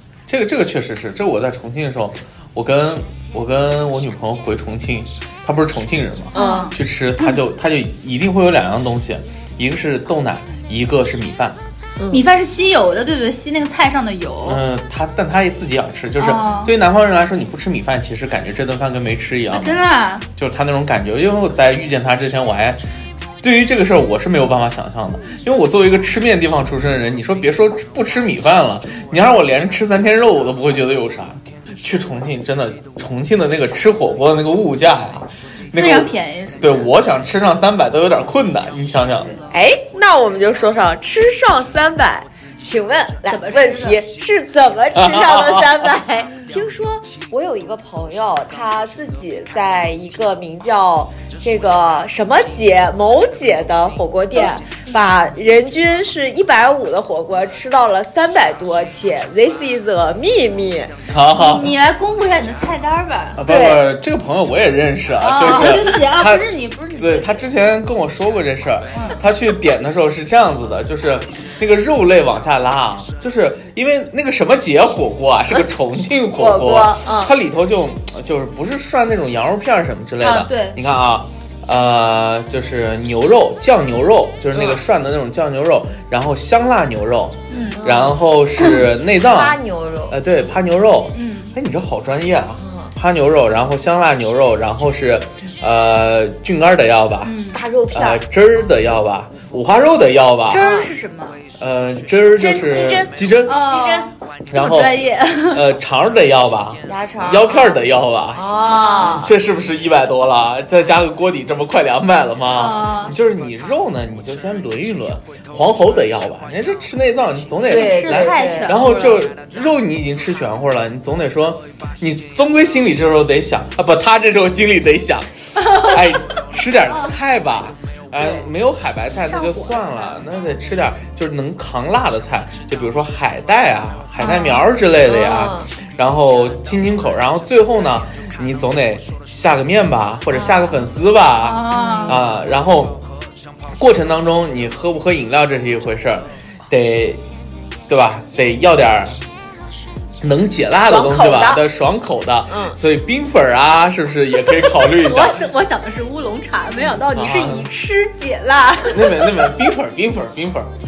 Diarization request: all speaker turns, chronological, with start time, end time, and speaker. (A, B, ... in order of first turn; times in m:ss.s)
0:00.3-0:11.6 A
0:06.3-0:06.7 B
0:06.3-0:07.3 C
0:12.0-0:12.2 B
0:12.1-0:14.6 C
0:14.4-0:19.8 A
0:16.2-0:16.7 C
0:19.5-0:20.2 C
0:20.3-0:22.8 A
0:23.4-0:39.3 A
0:35.7-0:36.8 C
0:39.5-1:00.9 B
0:43.2-0:44.0 C
0:44.9-0:45.7 A
1:01.1-1:01.7 A
1:01.3-1:03.4 C
1:03.4-1:06.5 A
1:03.5-1:03.8 B
1:05.2-1:07.4 C
1:07.0-1:29.6 A
1:08.9-1:09.2 C
1:16.3-1:17.3 B
1:20.2-1:20.8 C
1:24.5-1:24.8 B
1:27.5-1:27.8 C
1:27.8-1:28.2 B
1:29.1-1:30.2 B
1:30.1-1:37.3 A
1:31.1-1:31.5 C
1:32.6-1:32.9 B
1:37.2-1:37.6 C
1:37.5-1:38.2 B
1:37.9-1:40.7 A
1:40.5-1:41.4 C
1:40.5-1:40.9 B
1:41.6-1:43.6 A
1:42.4-1:44.1 B
1:42.5-1:45.6 C
1:44.5-1:45.0 A
1:45.5-1:48.4 A
1:46.8-1:47.8 B
1:48.3-1:49.3 B
1:48.6-1:49.1 C
1:49.1-2:23.0 A
1:52.5-1:53.1 C
1:57.6-1:59.3 C
1:57.6-1:58.8 B
2:05.6-2:06.0 C
2:09.2-2:10.1 C
2:14.2-2:14.6 C
2:15.0-2:15.7 B
2:20.3-2:20.7 B
2:21.4-2:22.2 C
2:21.7-2:22.2 B
2:23.8-2:27.2 A
2:27.9-2:29.2 A
2:30.2-2:35.4 A
2:30.8-2:31.6 B
2:32.5-2:32.8 B
2:34.8-2:39.5 C
2:37.0-2:37.7 A
2:38.9-2:40.7 A